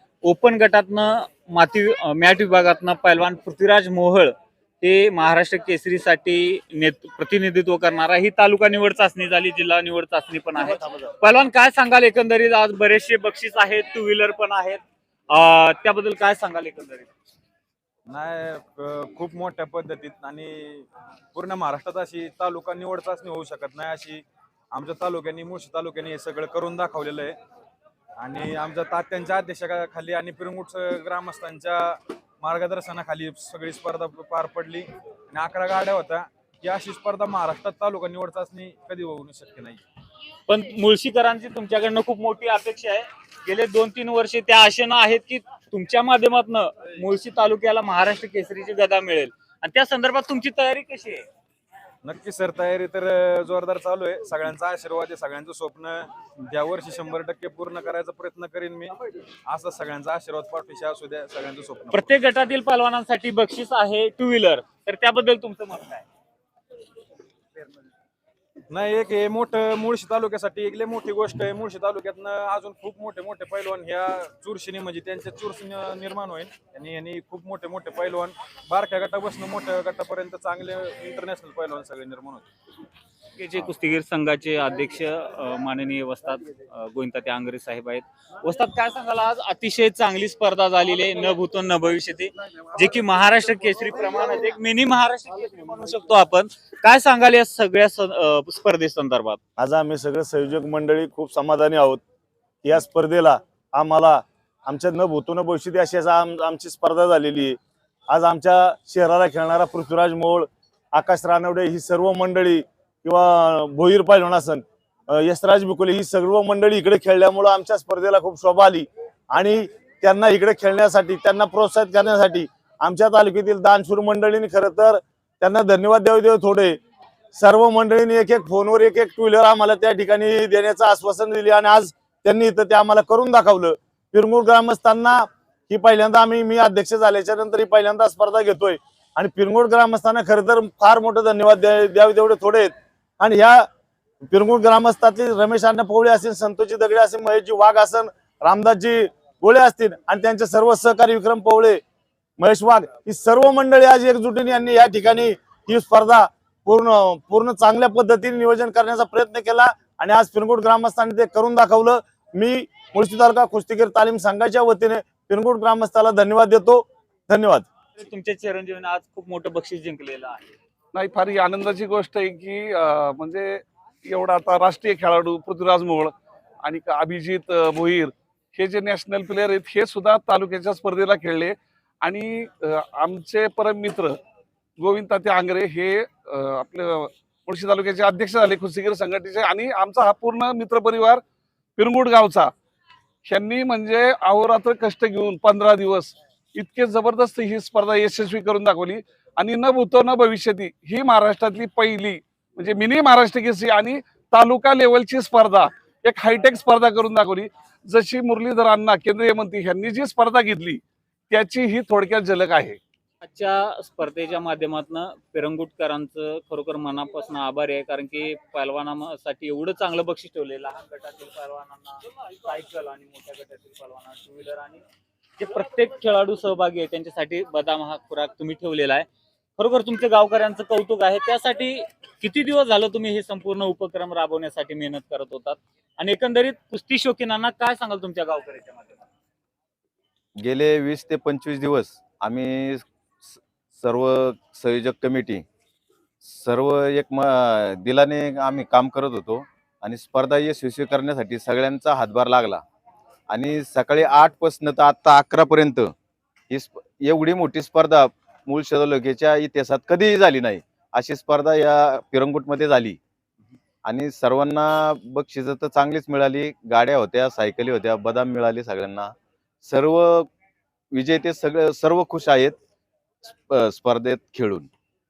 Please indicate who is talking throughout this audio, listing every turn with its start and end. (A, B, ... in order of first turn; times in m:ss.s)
0:00.2-0:17.1 A
0:10.6-0:11.1 B
0:18.1-0:27.4 C
0:28.2-0:39.8 C
0:40.5-0:51.3 A
0:52.0-0:59.0 C
0:59.5-1:02.1 C
1:01.9-1:06.0 A
1:08.7-1:22.4 C
1:23.4-1:39.4 A
1:39.6-1:42.0 B
1:42.6-1:47.6 B
1:48.1-2:06.8 B
2:07.3-2:23.7 B
2:24.3-2:31.8 B
2:32.4-2:47.7 B
2:48.0-2:50.5 A
2:50.9-3:04.2 D
3:04.8-3:11.2 D
3:11.8-3:12.5 D
3:13.2-3:32.8 D
3:33.2-3:44.8 A
3:45.4-3:49.1 A
3:49.6-3:59.1 A
4:00.4-4:05.4 E
4:06.2-4:12.6 E
4:13.3-4:15.9 E
4:16.5-4:23.0 E
4:23.8-4:30.3 E
4:30.9-4:32.6 E
4:33.3-4:34.7 E